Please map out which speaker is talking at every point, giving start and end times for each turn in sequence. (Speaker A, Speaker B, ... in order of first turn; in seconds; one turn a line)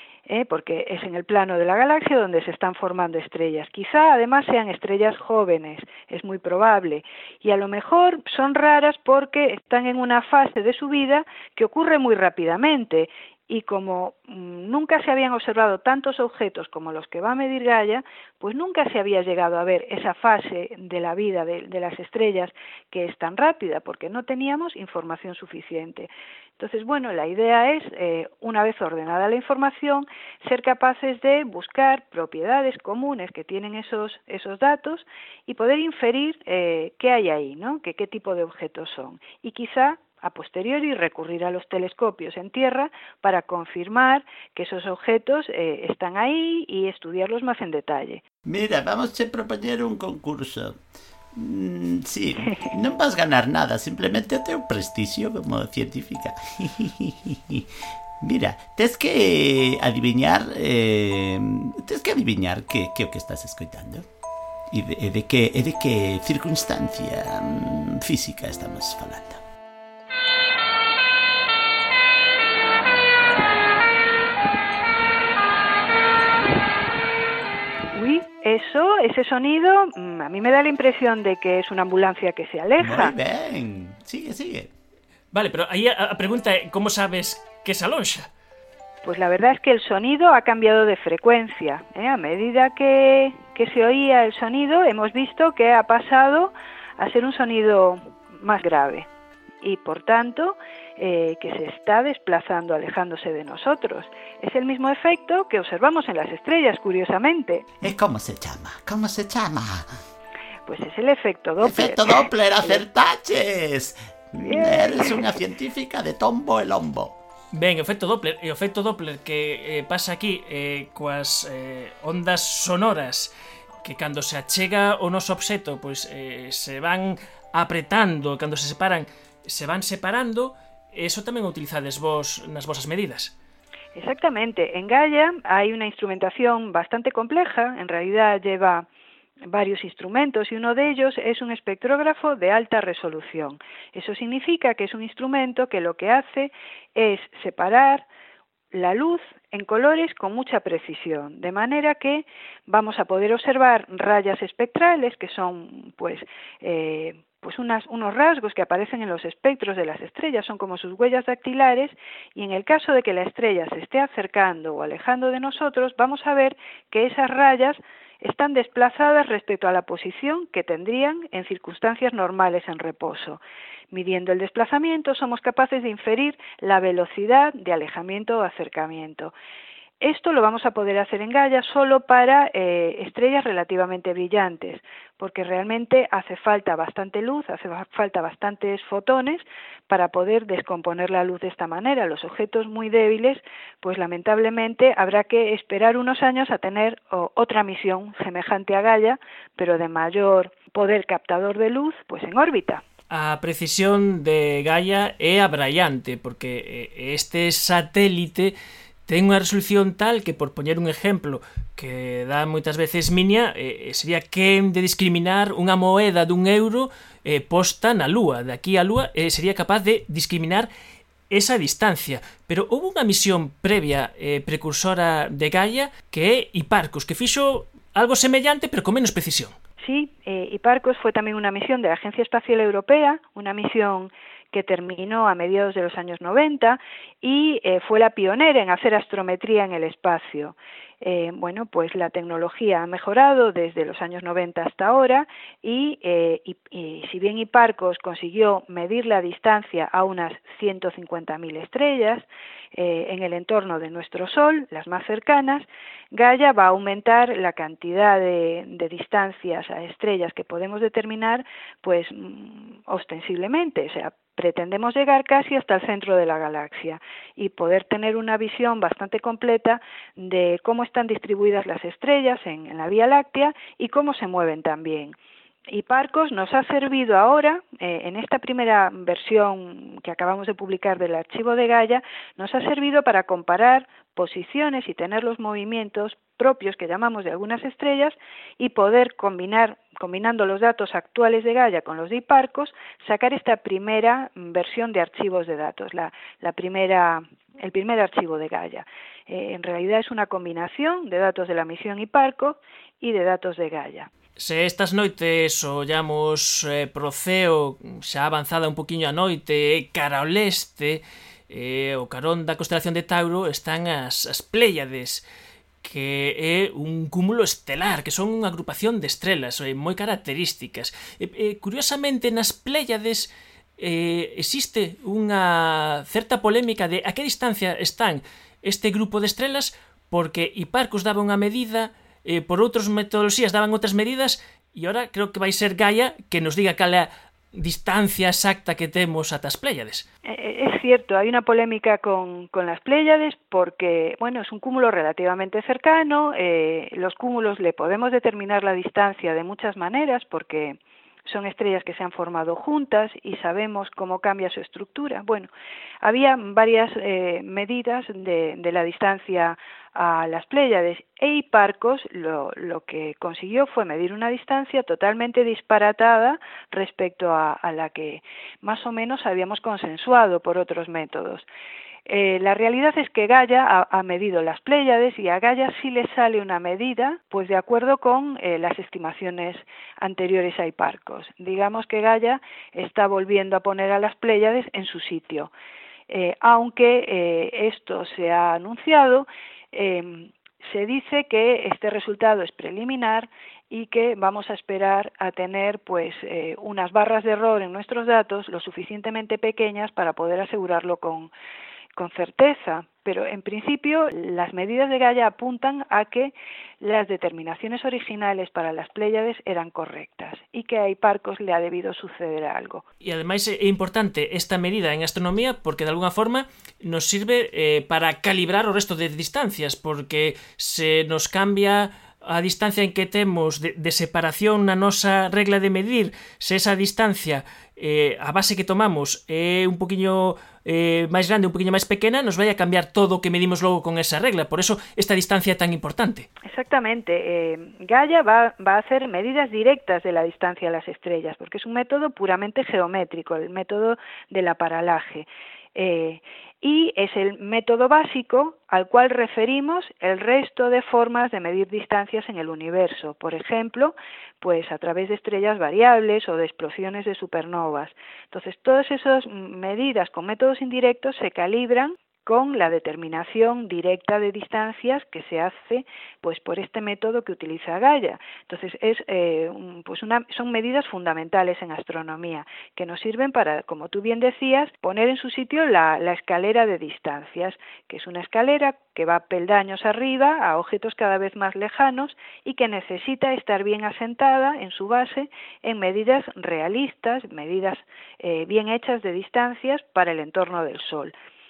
Speaker A: 0.3-48.2
Speaker B: 48.5-50.8
Speaker B: 51.3-57.7
Speaker B: 58.2-64.0
Speaker B: 64.7-69.4
Speaker A: 77.9-83.1
Speaker B: 82.8-84.7
Speaker C: 85.3-88.3
Speaker A: 89.0-99.1
Speaker A: 99.6-107.7
Speaker B: 107.8-109.9
Speaker A: 110.7-112.8
Speaker B: 111.6-117.2
Speaker A: 114.4-115.3
Speaker C: 117.5-123.3
Speaker C: 123.8-133.3
Speaker A: 133.9-138.9
Speaker A: 139.5-148.0
Speaker A: 148.7-179.3
Speaker A: 180.0-202.8
Speaker C: 203.1-208.5
Speaker C: 209.1-220.7
Speaker C: 221.3-229.5
Speaker A: 229.8-275.1
Speaker A: 275.7-304.1
Speaker C: 304.4-315.2
Speaker C: 315.8-340.1
Speaker A: 340.2-355.5
Speaker A: 356.0-371.4
Speaker A: 372.1-385.5
Speaker A: 386.1-401.3
Speaker A: 401.9-412.8
Speaker C: 413.0-436.3
Speaker A: 436.4-491.1